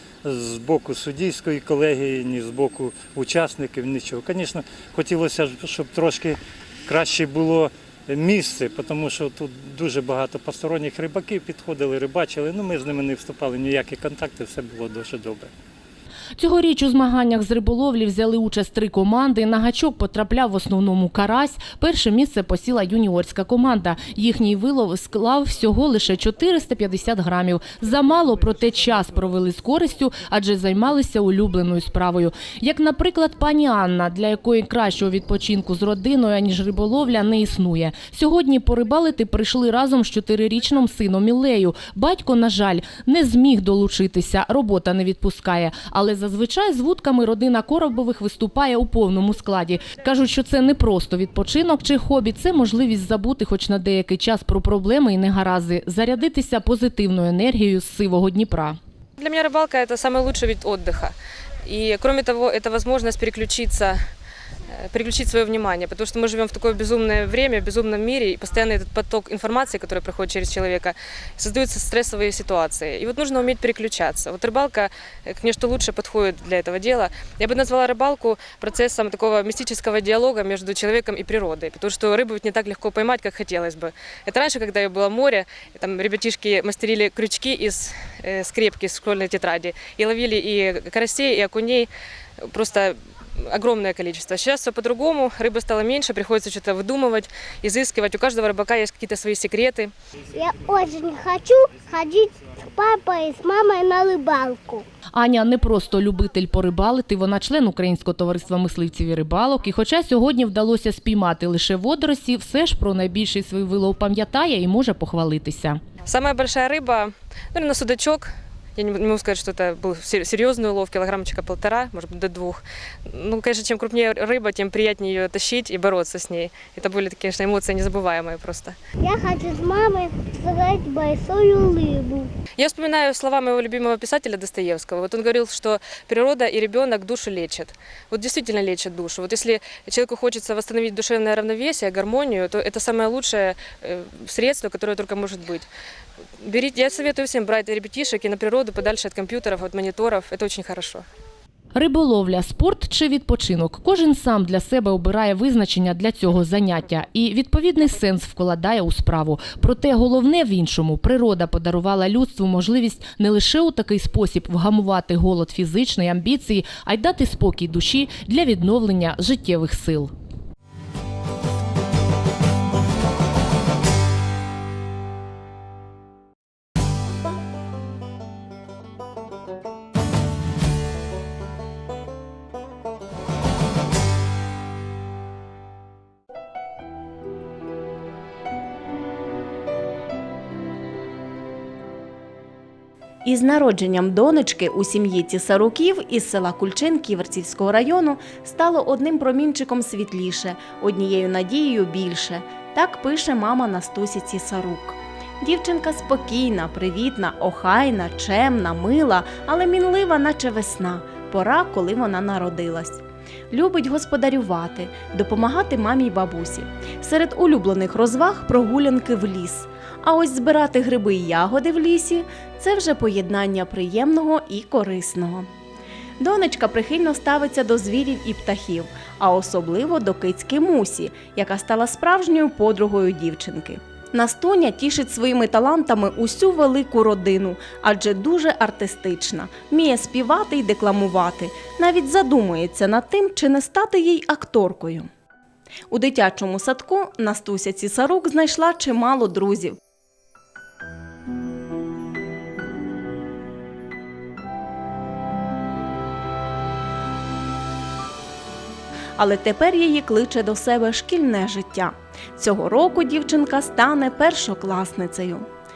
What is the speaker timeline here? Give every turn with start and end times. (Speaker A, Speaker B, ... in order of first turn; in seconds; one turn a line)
Speaker A: 0.2-15.5
Speaker B: 16.4-58.8
Speaker C: 59.2-64.0
Speaker C: 64.7-91.9
Speaker C: 92.4-99.9
Speaker D: 100.3-104.8
Speaker B: 105.1-115.8
Speaker C: 116.0-128.8
Speaker D: 129.0-132.3
Speaker C: 132.6-145.7
Speaker C: 146.4-151.1
Speaker B: 151.7-170.1
Speaker E: 193.2-225.5
Speaker E: 226.2-245.1
Speaker E: 245.9-249.8
Speaker E: 259.2-265.4